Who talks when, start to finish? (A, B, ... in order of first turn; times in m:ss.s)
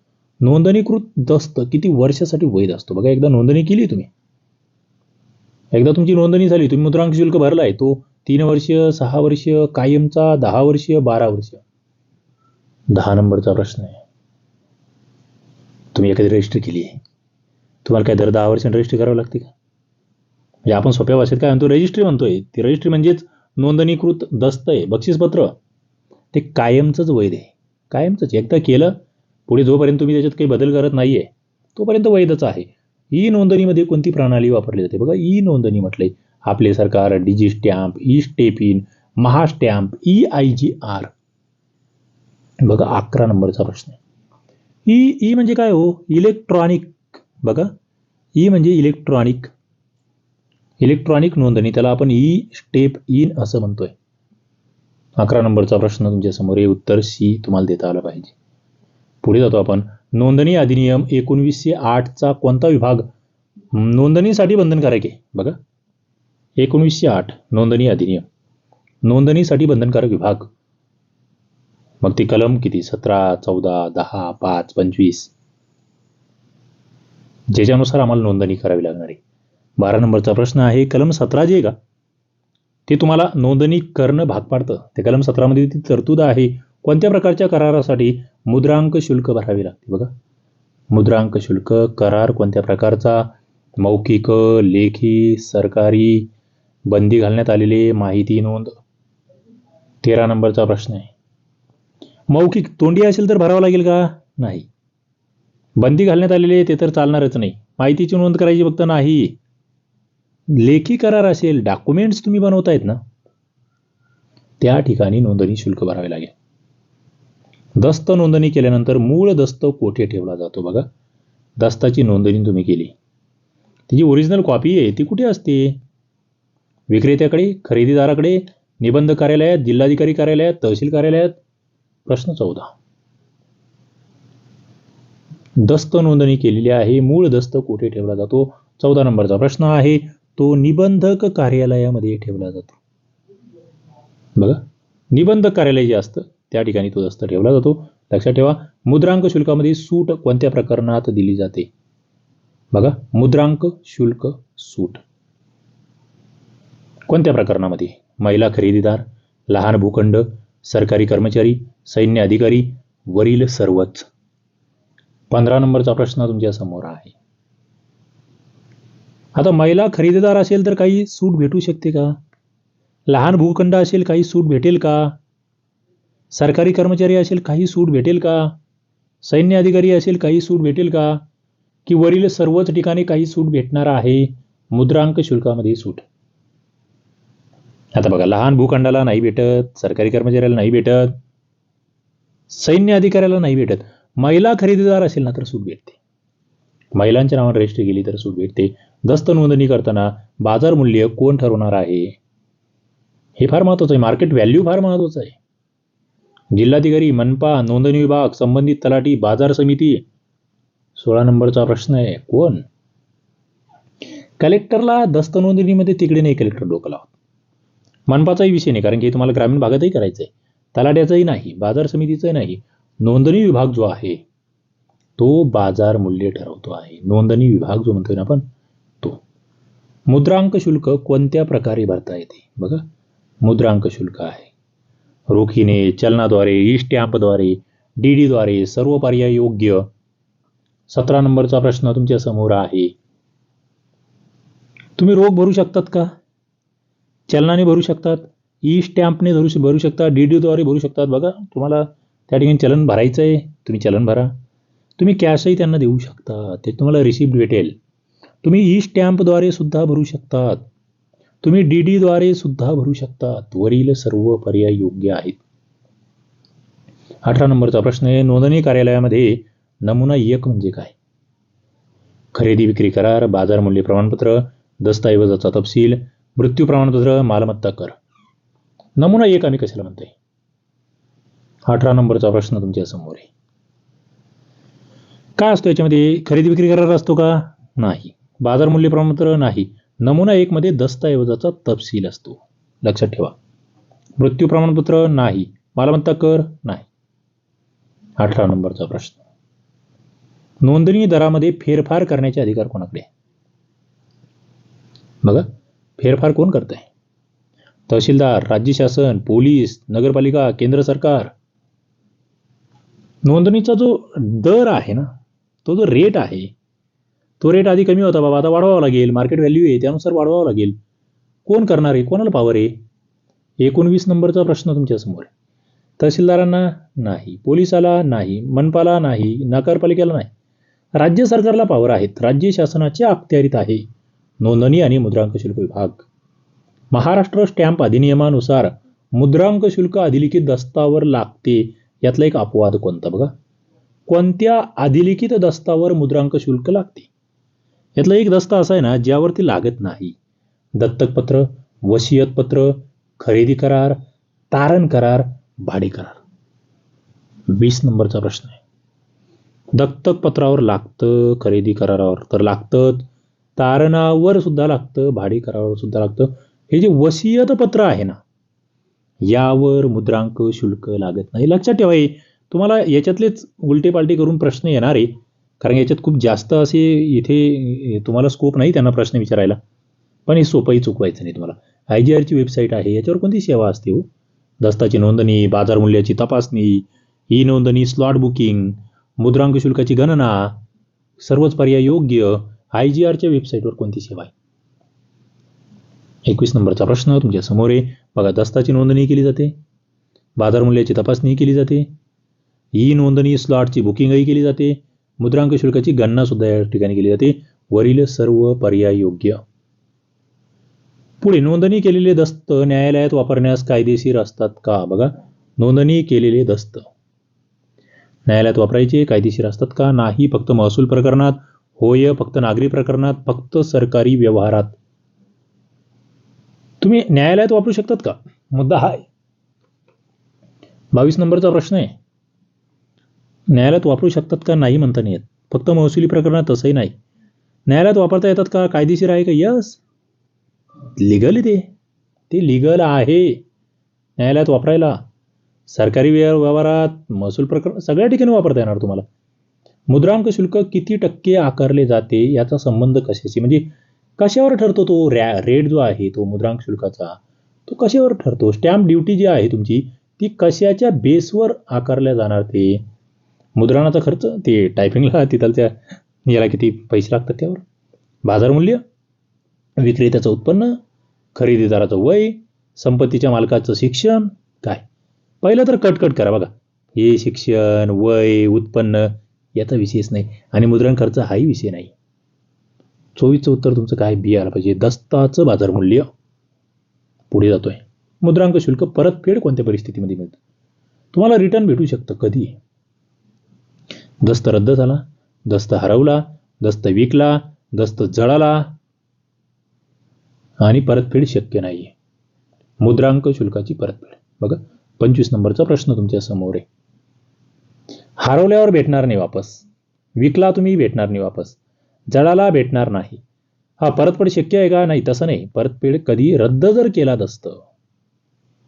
0:00.4-0:04.1 A
0:05.7-0:11.6 A
0:12.9-0:14.0 A
0:15.9-0:17.0 A
0:17.8-0:19.5 A
0:20.6-0:25.5 A
0:26.3-0:29.0 A
0:29.5-0:41.1 A
0:42.6-0:44.0 A
0:44.9-0:47.7 A
0:48.4-0:49.5 A
0:50.8-0:53.9 A
0:55.2-0:58.4 A
0:59.2-1:03.1 A
1:03.7-1:05.6 A
1:06.6-1:08.3 A
1:09.0-1:10.5 A
1:12.0-1:15.3 A
1:17.5-1:19.2 A
1:19.8-1:21.8 A
1:22.9-1:30.1 A
1:30.9-1:36.3 A
1:36.9-1:38.8 A
1:40.0-1:41.1 A
1:42.3-1:44.7 A
1:45.8-1:49.4 A
1:50.5-1:53.0 A
1:54.6-1:56.4 A
1:57.8-2:00.9 A
2:01.6-2:02.9 A
2:03.9-2:05.8 A
2:06.9-2:11.4 A
2:12.1-2:12.7 A
2:15.6-2:22.8 A
2:25.1-2:31.7 A
2:32.7-2:35.0 A
2:37.1-2:44.1 A
2:45.3-2:47.1 A
2:49.4-2:52.2 A
2:53.1-2:55.1 A
2:56.3-2:58.6 A
2:59.2-3:01.2 A
3:01.9-3:06.0 A
3:07.9-3:11.2 A
3:12.5-3:16.0 A
3:16.9-3:22.2 A
3:23.4-3:25.4 A
3:26.5-3:30.0 A
3:31.0-3:32.6 A
3:34.4-3:37.1 A
3:38.1-3:44.2 A
3:45.2-3:48.5 A
3:50.1-3:52.8 A
3:53.4-3:54.5 A
3:55.3-3:59.9 A
4:00.9-4:03.0 A
4:05.0-4:06.1 A
4:07.3-4:14.3 A
4:15.0-4:17.8 A
4:18.4-4:20.6 A
4:21.4-4:25.4 A
4:27.2-4:30.9 A
4:32.3-4:38.0 A
4:39.0-4:40.1 A
4:41.7-4:43.3 A
4:45.4-4:53.4 A
4:54.2-4:56.9 A
4:58.2-4:59.2 A
5:00.6-5:03.1 A
5:05.2-5:06.9 A
5:07.9-5:11.3 A
5:13.2-5:15.1 A
5:15.6-5:16.5 A
5:17.4-5:20.8 A
5:21.5-5:22.7 A
5:23.6-5:25.3 A
5:26.0-5:30.3 A
5:31.0-5:33.8 A
5:34.4-5:36.0 A
5:36.9-5:43.3 A
5:44.1-5:47.1 A
5:48.0-5:50.1 A
5:50.8-5:54.0 A
5:54.5-5:56.2 A
5:57.5-5:58.6 A
5:59.7-6:08.2 A
6:09.2-6:19.6 A
6:20.3-6:24.1 A
6:24.6-6:30.6 A
6:31.2-6:34.3 A
6:36.2-6:39.5 A
6:40.4-6:41.9 A
6:42.8-6:49.4 A
6:51.2-6:56.9 A
6:58.3-7:04.8 A
7:06.8-7:09.0 A
7:10.9-7:12.0 A
7:13.5-7:16.9 A
7:17.7-7:19.8 A
7:21.0-7:21.7 A
7:22.3-7:23.4 A
7:24.2-7:25.0 A
7:25.7-7:29.0 A
7:29.9-7:42.8 A
7:43.6-7:47.6 A
7:48.2-7:48.8 A
7:49.8-7:50.8 A
7:51.4-7:54.8 A
7:55.4-8:01.9 A
8:03.1-8:06.1 A
8:07.3-8:10.4 A
8:11.1-8:12.6 A
8:14.2-8:18.8 A
8:20.6-8:21.9 A
8:22.8-8:26.7 A
8:28.2-8:29.6 A
8:30.2-8:31.6 A
8:32.1-8:33.2 A
8:33.8-8:37.6 A